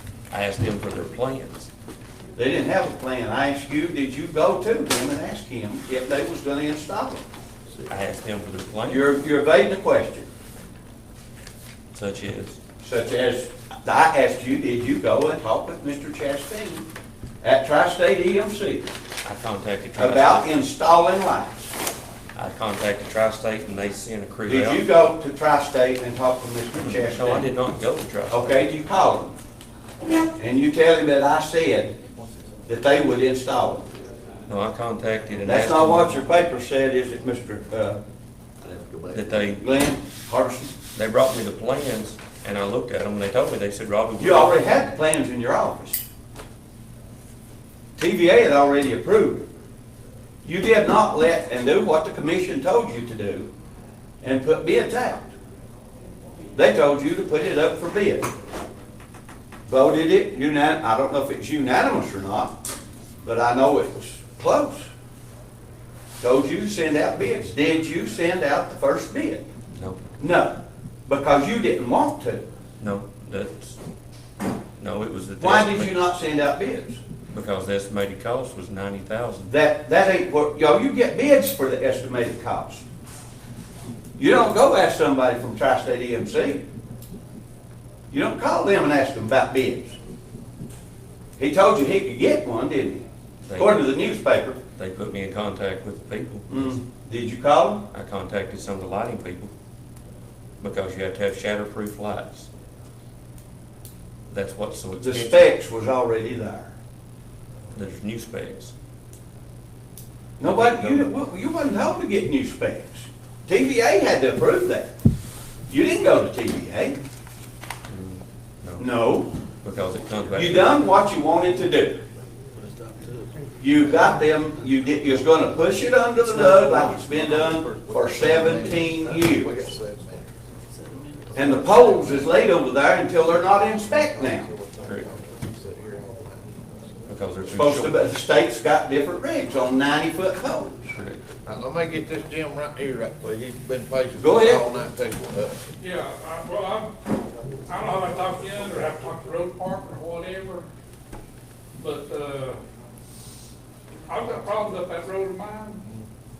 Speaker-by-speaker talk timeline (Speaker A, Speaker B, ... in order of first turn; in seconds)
Speaker A: 0.3-1.7, 7.9-9.1, 11.9-12.6, 19.2-20.5, 22.4-24.9, 26.7-28.6, 34.5-36.2, 39.1-39.6, 40.9-44.7, 69.7-70.0, 72.8-73.8, 74.8-76.0, 77.3-79.5, 93.5-93.8, 94.8-96.7, 97.9-99.5, 100.6-102.5, 104.3-105.5, 107.7-108.7, 110.4-111.1, 117.9-118.9, 119.6-120.8, 137.1-138.0, 140.9-141.2
Speaker B: 2.4-7.2, 8.9-10.3, 12.8-16.9, 17.4-18.9, 20.0-21.8, 24.5-27.5, 28.3-29.4, 30.4-32.0, 32.7-33.9, 35.5-38.0, 39.6-40.7, 44.2-46.0, 48.0-49.5, 50.4-53.5, 54.2-55.3, 56.5-58.3, 59.7-62.6, 63.2-64.9, 66.2-69.5, 70.2-72.5, 75.4-77.0, 79.5-82.8, 84.2-86.7, 88.1-90.0, 91.4-93.0, 93.6-94.6, 96.5-97.9, 105.0-106.7, 110.4-114.9, 115.7-117.0, 118.8-119.3, 120.3-122.0, 123.6-129.6, 131.3-134.5, 137.6-140.9, 144.2-144.6
Speaker C: 38.6-39.2, 126.2-130.3, 134.1-136.9, 141.4-145.6
Speaker D: 122.5-124.6, 130.7-132.3
Speaker E: 145.8-146.9, 147.7-150.7, 151.8-152.6, 154.1-155.8